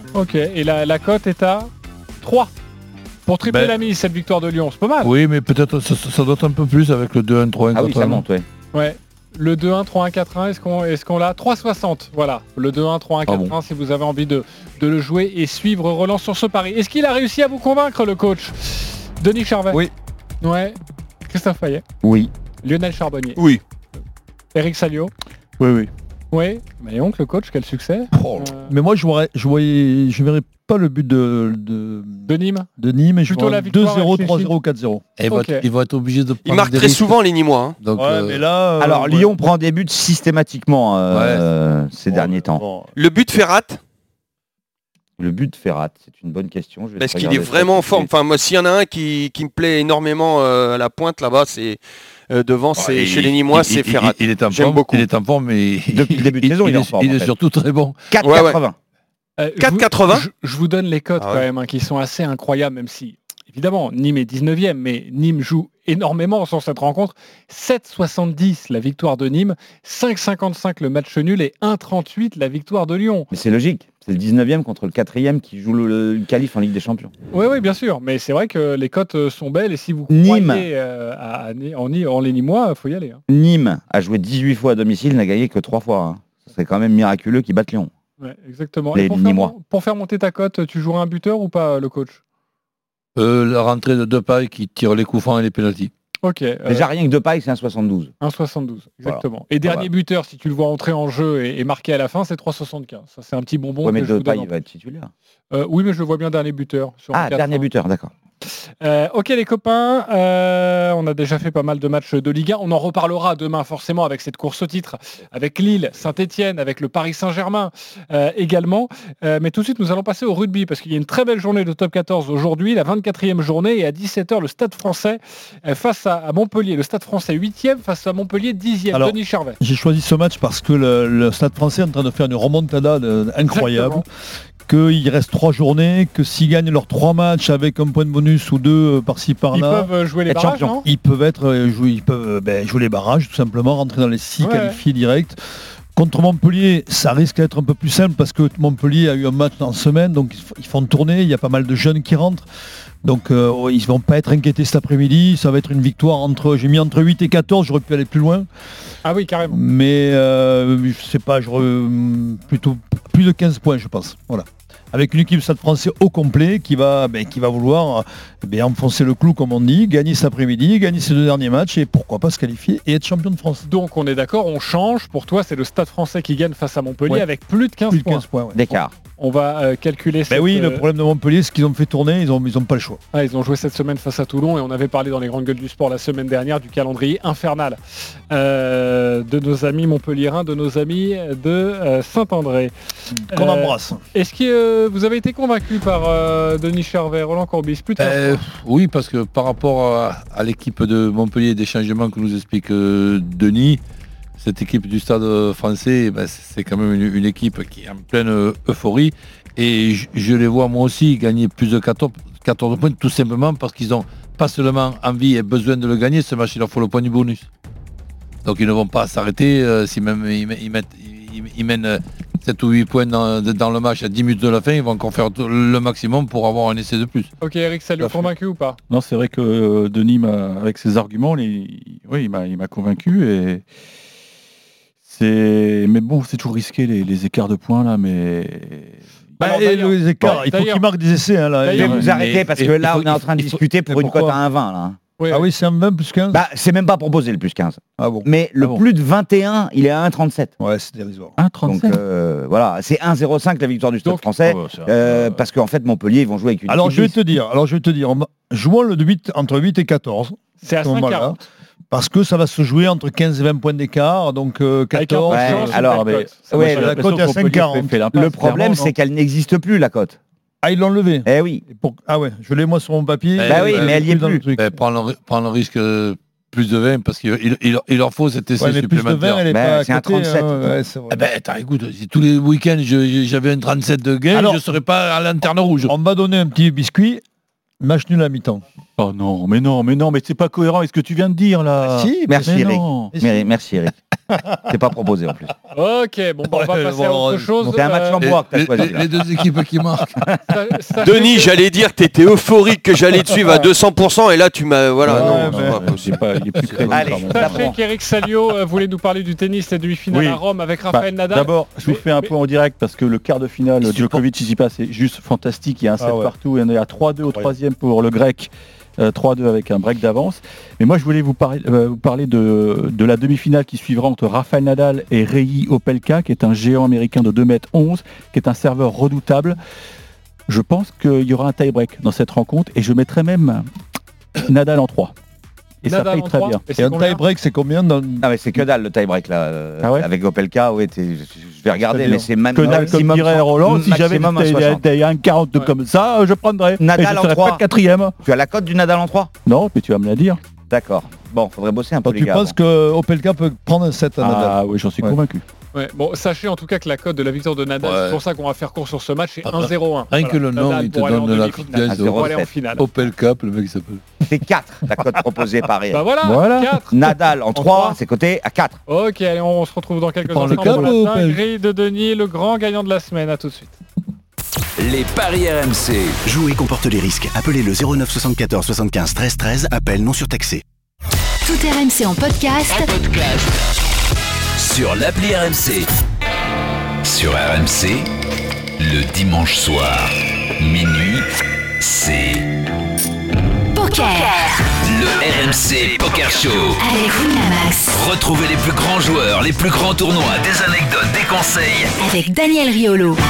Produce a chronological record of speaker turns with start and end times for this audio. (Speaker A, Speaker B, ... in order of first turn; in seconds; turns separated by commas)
Speaker A: 0.1-1.7, Speaker A: 2.2-2.5, Speaker A: 3.2-5.1, Speaker B: 3.5-3.8, Speaker B: 5.0-8.2, Speaker C: 7.7-8.4, Speaker A: 8.7-19.8, Speaker A: 20.4-20.8, Speaker A: 21.3-21.8, Speaker C: 22.0-22.3, Speaker A: 22.6-23.4, Speaker A: 24.5-25.1, Speaker D: 25.6-25.9, Speaker A: 26.3-28.7, Speaker B: 28.1-28.5, Speaker E: 28.6-35.0, Speaker A: 32.3-32.7, Speaker A: 33.2-34.5, Speaker B: 35.2-37.1, Speaker A: 35.3-35.6, Speaker F: 36.4-37.8, Speaker B: 37.8-38.4, Speaker E: 38.0-39.3, Speaker C: 38.8-42.6, Speaker B: 41.1-41.4, Speaker E: 42.1-42.9, Speaker F: 43.0-43.8, Speaker C: 45.2-48.1, Speaker F: 47.0-55.0, Speaker B: 52.8-58.0, Speaker C: 55.9-57.3, Speaker C: 58.1-58.8, Speaker F: 58.2-58.6, Speaker A: 59.4-73.3, Speaker F: 59.6-60.2, Speaker F: 61.2-61.4, Speaker C: 73.3-77.1, Speaker A: 77.3-83.2, Speaker C: 80.1-80.7, Speaker C: 83.3-87.9, Speaker A: 88.2-92.2, Speaker C: 88.9-89.5, Speaker B: 93.2-95.9, Speaker A: 96.2-96.9, Speaker C: 96.7-98.1, Speaker A: 98.2-104.5, Speaker C: 99.0-99.9, Speaker C: 103.8-105.1, Speaker A: 105.5-107.7, Speaker C: 107.1-108.1, Speaker A: 108.5-129.6, Speaker E: 128.9-134.0, Speaker A: 133.4-134.0, Speaker E: 134.7-139.9, Speaker A: 139.5-140.8, Speaker E: 140.7-145.4, Speaker A: 144.4-144.8, Speaker E: 145.9-152.4, Speaker E: 153.0-158.5, Speaker A: 159.0-159.6, Speaker E: 159.5-173.6, Speaker A: 173.7-178.2, Speaker E: 177.9-178.6, Speaker C: 178.5-178.9, Speaker A: 179.2-180.8, Speaker E: 180.3-183.0, Speaker A: 183.1-187.8, Speaker A: 188.3-192.7, Speaker E: 193.1-194.0, Speaker A: 193.3-198.4, Speaker B: 198.0-203.8, Speaker B: 204.4-217.5, Speaker B: 218.4-227.3, Speaker A: 227.4-228.8, Speaker D: 228.9-233.6, Speaker D: 235.0-239.0, Speaker A: 239.4-240.9, Speaker E: 239.4-242.2, Speaker A: 241.6-242.0, Speaker C: 241.8-245.0, Speaker B: 242.1-243.6, Speaker E: 243.9-244.3, Speaker A: 245.2-245.5, Speaker E: 245.3-246.4, Speaker C: 246.3-250.5, Speaker E: 248.0-248.3, Speaker E: 250.6-251.3, Speaker D: 251.4-252.0, Speaker C: 251.6-257.1, Speaker D: 254.4-255.4, Speaker E: 256.7-261.4, Speaker A: 260.6-261.4, Speaker E: 261.9-265.9, Speaker A: 264.9-266.8, Speaker C: 265.3-267.0, Speaker D: 265.8-268.9, Speaker E: 266.5-268.0, Speaker C: 268.1-270.2, Speaker E: 270.6-274.7, Speaker C: 271.2-271.6, Speaker B: 273.4-279.4, Speaker C: 273.4-274.4, Speaker E: 278.6-281.2, Speaker C: 279.5-280.8, Speaker B: 281.1-285.9, Speaker E: 284.3-284.6, Speaker E: 285.9-287.2, Speaker E: 287.8-288.6, Speaker D: 289.0-293.1, Speaker E: 291.8-293.5, Speaker C: 292.2-293.9, Speaker E: 294.3-294.6, Speaker C: 294.6-295.5, Speaker A: 295.7-298.2, Speaker E: 296.5-297.6, Speaker C: 297.7-299.1, Speaker B: 298.2-300.2, Speaker A: 300.5-301.5, Speaker F: 301.0-305.9, Speaker E: 305.1-305.9, Speaker D: 305.1-307.7, Speaker C: 306.9-307.8, Speaker A: 307.3-312.3, Speaker D: 310.1-329.6, Speaker E: 313.9-314.2, Speaker E: 316.0-316.3, Speaker D: 330.5-333.7, Speaker D: 334.4-335.1, Speaker D: 335.8-336.6, Speaker A: 335.8-337.2, Speaker E: 336.8-338.2, Speaker C: 338.2-344.8, Speaker D: 339.8-340.1, Speaker E: 341.9-343.0, Speaker D: 342.5-348.1, Speaker C: 346.8-347.6, Speaker C: 348.2-349.3, Speaker D: 349.4-350.4, Speaker C: 350.7-352.5, Speaker E: 352.0-355.2, Speaker D: 354.2-355.4, Speaker A: 355.7-362.9, Speaker B: 357.8-358.2, Speaker B: 359.4-364.0, Speaker C: 361.9-362.5, Speaker C: 364.2-366.0, Speaker A: 365.9-367.0, Speaker D: 366.2-366.8, Speaker C: 366.9-368.8, Speaker A: 367.5-368.0, Speaker A: 368.9-373.8, Speaker E: 370.2-371.4, Speaker G: 374.8-376.2, Speaker H: 376.2-380.6, Speaker I: 381.4-382.9, Speaker G: 382.8-383.6, Speaker G: 384.6-385.9, Speaker G: 387.0-388.1, Speaker G: 388.8-391.3, Speaker G: 391.8-392.5, Speaker I: 393.7-394.6, Speaker G: 394.8-396.8, Speaker I: 396.8-397.9, Speaker G: 397.9-401.9, Speaker I: 402.0-403.2